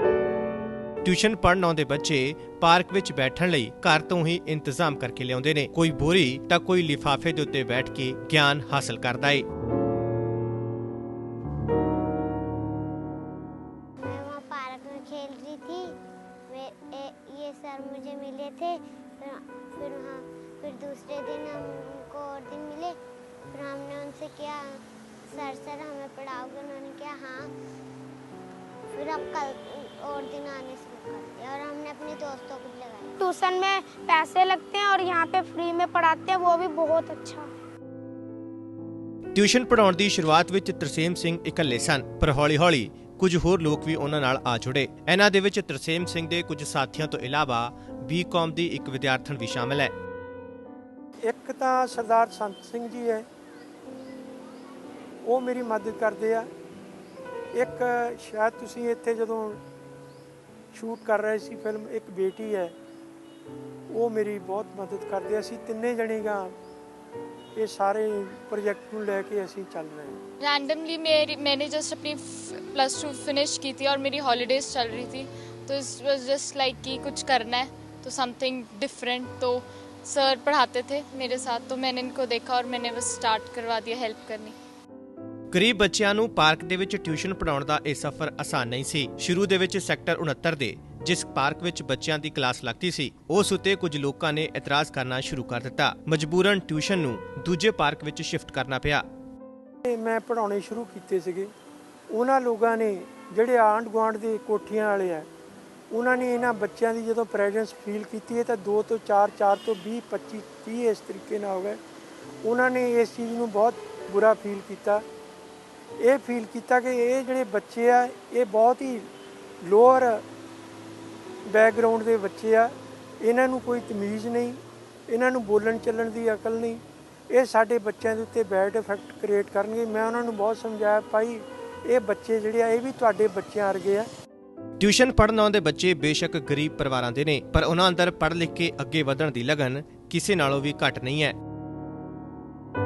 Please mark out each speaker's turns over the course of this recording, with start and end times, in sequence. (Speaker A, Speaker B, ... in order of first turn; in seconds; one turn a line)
Speaker A: 1.0-9.4
Speaker B: 14.0-15.9
Speaker B: 16.5-23.0
Speaker B: 23.5-27.5
Speaker B: 28.9-33.1
Speaker C: 33.2-37.5
Speaker A: 39.3-49.9
Speaker D: 51.3-53.2
Speaker D: 55.2-56.5
Speaker D: 57.5-59.6
Speaker D: 60.7-62.7
Speaker D: 63.9-66.5
Speaker D: 67.5-70.2
Speaker E: 70.4-84.5
Speaker A: 85.5-99.0
Speaker D: 99.8-101.5
Speaker D: 102.1-105.3
Speaker D: 105.9-111.8
Speaker D: 112.4-115.0
Speaker D: 116.0-119.1
Speaker D: 119.6-120.2
Speaker D: 121.5-134.1
Speaker A: 134.8-141.3